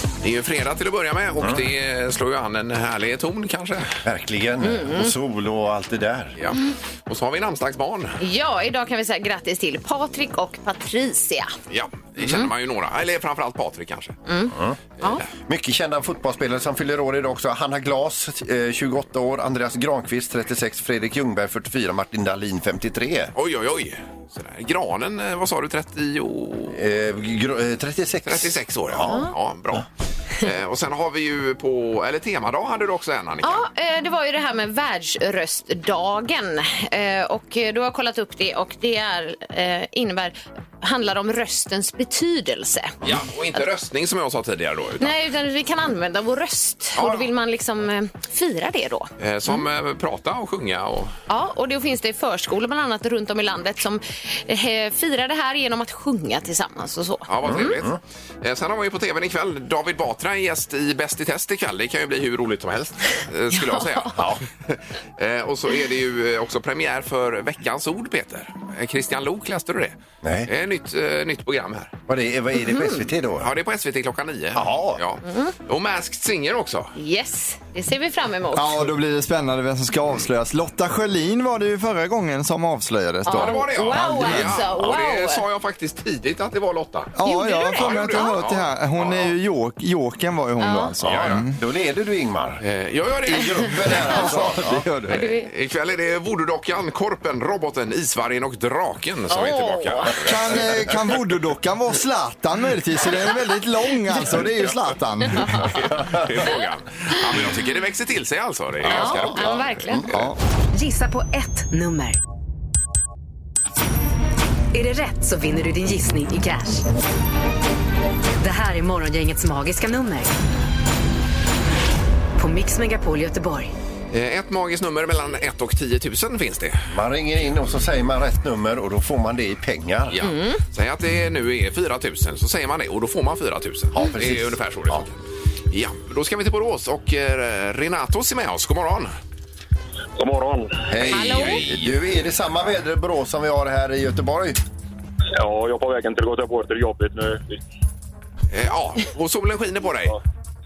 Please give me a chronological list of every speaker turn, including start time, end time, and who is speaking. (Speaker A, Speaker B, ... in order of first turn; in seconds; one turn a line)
Speaker A: 0.2-3.9
Speaker B: 4.0-6.3
Speaker C: 4.6-5.1
Speaker A: 6.4-8.2
Speaker C: 8.2-11.5
Speaker A: 11.7-14.2
Speaker C: 12.2-12.5
Speaker C: 14.3-15.2
Speaker B: 14.5-14.8
Speaker B: 15.4-23.3
Speaker A: 23.3-26.8
Speaker B: 26.7-29.8
Speaker A: 28.2-29.9
Speaker A: 30.4-33.6
Speaker C: 33.4-43.0
Speaker A: 43.0-45.1
Speaker C: 45.0-49.6
Speaker A: 47.0-47.3
Speaker A: 49.2-51.1
Speaker C: 51.3-57.7
Speaker A: 57.3-71.9
Speaker B: 57.4-58.0
Speaker C: 63.5-64.2
Speaker B: 64.2-64.4
Speaker B: 70.2-70.5
Speaker B: 72.1-73.5
Speaker C: 72.6-73.0
Speaker A: 73.4-76.9
Speaker B: 74.5-75.0
Speaker C: 75.2-75.5
Speaker C: 77.0-78.9
Speaker D: 78.5-84.6
Speaker C: 83.2-85.4
Speaker A: 83.3-87.1
Speaker D: 87.1-91.6
Speaker C: 87.2-88.3
Speaker A: 87.6-89.3
Speaker C: 90.6-90.9
Speaker B: 91.0-92.6
Speaker A: 91.1-91.4
Speaker A: 92.6-94.4
Speaker B: 93.3-94.9
Speaker D: 94.1-95.2
Speaker A: 95.0-100.7
Speaker C: 95.1-95.5
Speaker C: 99.3-100.1
Speaker D: 100.2-105.7
Speaker A: 105.5-110.3
Speaker B: 108.8-110.0
Speaker C: 108.9-110.1
Speaker D: 110.1-110.4
Speaker E: 110.7-112.2
Speaker E: 114.7-116.8
Speaker E: 118.4-120.3
Speaker E: 122.3-123.7
Speaker A: 124.1-126.8
Speaker B: 126.9-130.2
Speaker A: 130.1-135.2
Speaker C: 130.2-130.6
Speaker B: 133.9-135.0
Speaker A: 135.7-139.1
Speaker F: 140.2-140.8
Speaker B: 140.9-144.6
Speaker A: 141.0-142.0
Speaker C: 141.1-141.7
Speaker F: 145.3-147.6
Speaker A: 148.5-150.1